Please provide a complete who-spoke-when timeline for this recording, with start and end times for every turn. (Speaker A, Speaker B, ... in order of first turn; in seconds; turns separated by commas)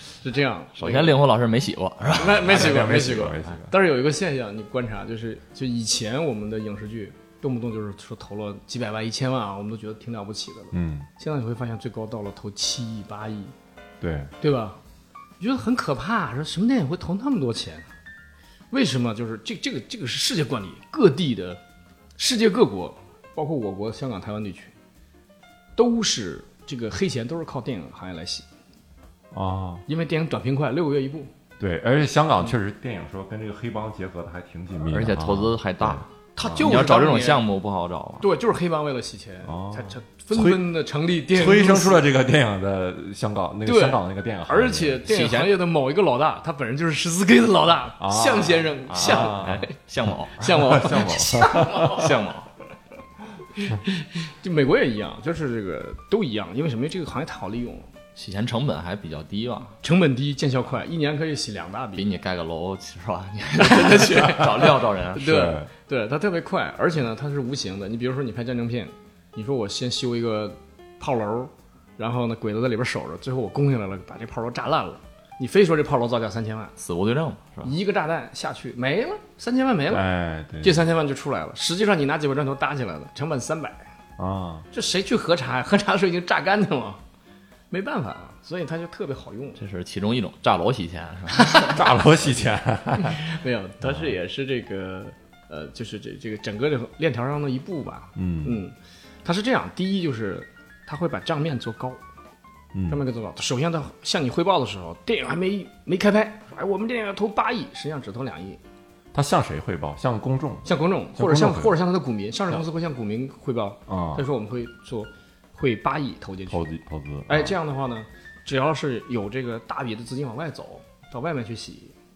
Speaker A: 0.2-1.1, Speaker B: 0.8-2.7, Speaker C: 2.1-3.7, Speaker A: 2.1-13.5, Speaker C: 10.7-11.1, Speaker C: 14.0-14.3, Speaker A: 14.4-14.8, Speaker A: 15.4-17.9, Speaker A: 18.7-21.6, Speaker A: 22.2-24.7, Speaker A: 25.8-28.5, Speaker C: 29.3-29.8, Speaker A: 29.9-31.3, Speaker C: 31.6-36.7, Speaker B: 34.9-38.3, Speaker A: 36.4-37.4, Speaker A: 38.2-42.0, Speaker C: 39.5-40.6, Speaker C: 41.3-45.0, Speaker A: 43.6-49.7, Speaker B: 45.1-45.6, Speaker C: 48.0-49.6, Speaker B: 48.9-50.8, Speaker A: 50.4-52.1, Speaker C: 50.4-51.9, Speaker B: 51.8-52.5, Speaker A: 53.6-57.9, Speaker B: 58.2-59.8, Speaker A: 59.8-62.0, Speaker B: 62.0-65.4, Speaker A: 63.6-76.7, Speaker C: 65.2-65.7, Speaker B: 76.8-77.7, Speaker A: 77.6-80.0, Speaker C: 79.9-80.8, Speaker A: 80.6-83.9, Speaker C: 84.2-84.7, Speaker A: 84.7-87.0, Speaker A: 87.7-89.6, Speaker B: 89.6-91.8, Speaker A: 91.4-91.8, Speaker C: 91.7-93.2, Speaker A: 93.0-102.0, Speaker C: 93.8-94.1, Speaker C: 98.2-98.6, Speaker C: 102.7-103.0, Speaker A: 102.9-108.6, Speaker C: 109.1-111.7, Speaker A: 110.6-116.6, Speaker C: 113.9-114.2, Speaker C: 116.5-117.5, Speaker A: 117.3-121.9